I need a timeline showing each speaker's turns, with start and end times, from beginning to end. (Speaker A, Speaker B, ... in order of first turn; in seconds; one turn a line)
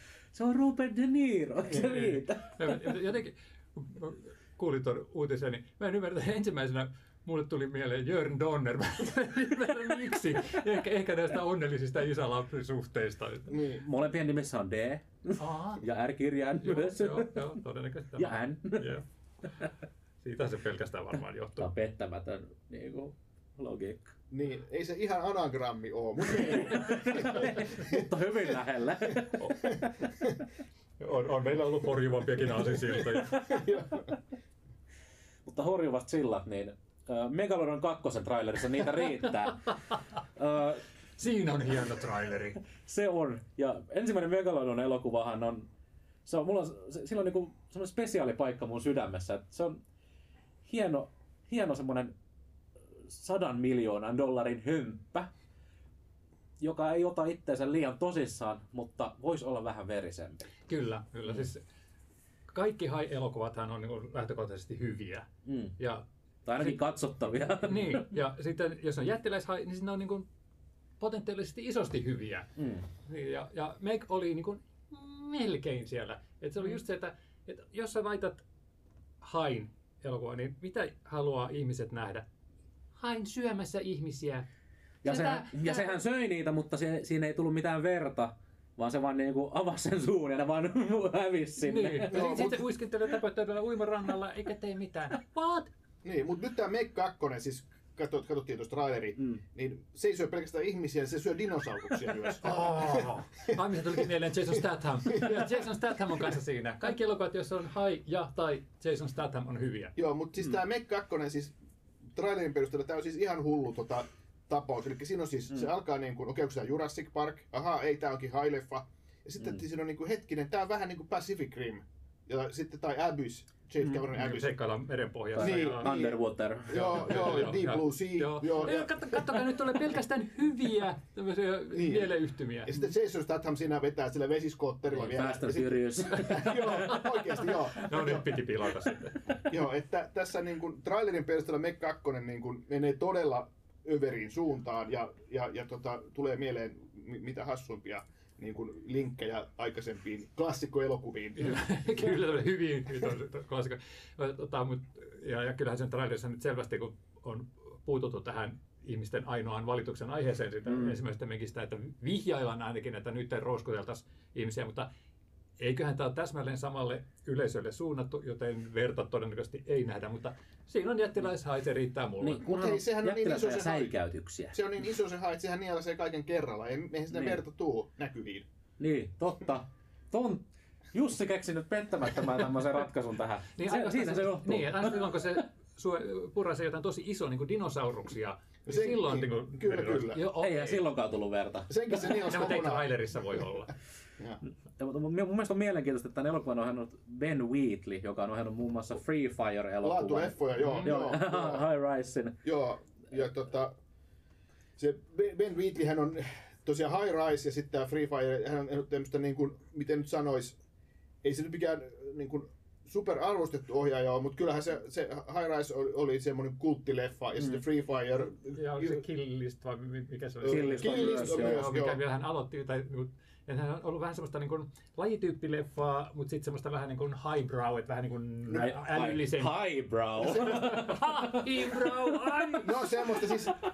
Speaker A: 0.3-2.9
Speaker B: 1.7-13.7
Speaker C: 13.5-13.8
Speaker A: 13.6-17.6
Speaker B: 15.4-15.8
Speaker B: 16.6-19.0
Speaker A: 18.1-18.9
Speaker B: 20.2-21.7
Speaker A: 21.6-24.1
Speaker C: 24.3-28.1
Speaker A: 26.3-29.9
Speaker C: 29.6-30.4
Speaker B: 31.0-33.6
Speaker A: 33.1-33.6
Speaker C: 33.3-34.2
Speaker A: 35.4-39.8
Speaker A: 40.3-40.8
Speaker B: 41.2-42.6
Speaker A: 42.8-45.7
Speaker A: 46.2-49.8
Speaker A: 50.6-52.1
Speaker A: 53.0-55.3
Speaker A: 56.6-60.5
Speaker B: 60.7-61.6
Speaker B: 62.5-65.3
Speaker A: 65.5-65.7
Speaker B: 65.8-66.0
Speaker A: 66.5-68.1
Speaker B: 67.6-70.3
Speaker B: 71.0-78.4
Speaker A: 72.6-72.8
Speaker B: 79.2-82.2
Speaker B: 83.0-84.5
Speaker B: 85.0-86.0
Speaker A: 85.0-92.5
Speaker B: 91.6-95.7
Speaker C: 92.1-92.6
Speaker C: 96.0-104.0
Speaker B: 102.4-110.0
Speaker C: 105.1-105.6
Speaker C: 110.0-111.5
Speaker C: 112.1-124.5
Speaker B: 124.1-125.9
Speaker A: 125.3-127.2
Speaker C: 125.4-126.2
Speaker C: 126.7-129.2
Speaker B: 126.7-132.7
Speaker C: 131.7-138.4
Speaker A: 134.9-137.0
Speaker B: 136.9-139.4
Speaker C: 139.4-152.1
Speaker B: 151.4-164.9
Speaker A: 160.7-161.0
Speaker B: 165.6-172.4
Speaker A: 172.2-174.6
Speaker C: 172.4-173.9
Speaker C: 174.5-178.4
Speaker A: 177.1-177.4
Speaker A: 178.8-185.2
Speaker B: 183.6-190.8
Speaker C: 188.7-190.3
Speaker A: 190.4-191.7
Speaker C: 191.7-193.5
Speaker B: 191.9-193.7
Speaker A: 194.8-202.4
Speaker C: 199.8-201.6
Speaker B: 200.6-201.0
Speaker C: 202.4-203.7
Speaker C: 204.8-210.6
Speaker C: 211.2-219.0
Speaker B: 218.5-229.6
Speaker C: 220.4-222.0
Speaker A: 220.4-221.7
Speaker A: 228.5-232.5
Speaker C: 230.2-230.8
Speaker B: 230.3-233.3
Speaker C: 232.6-233.6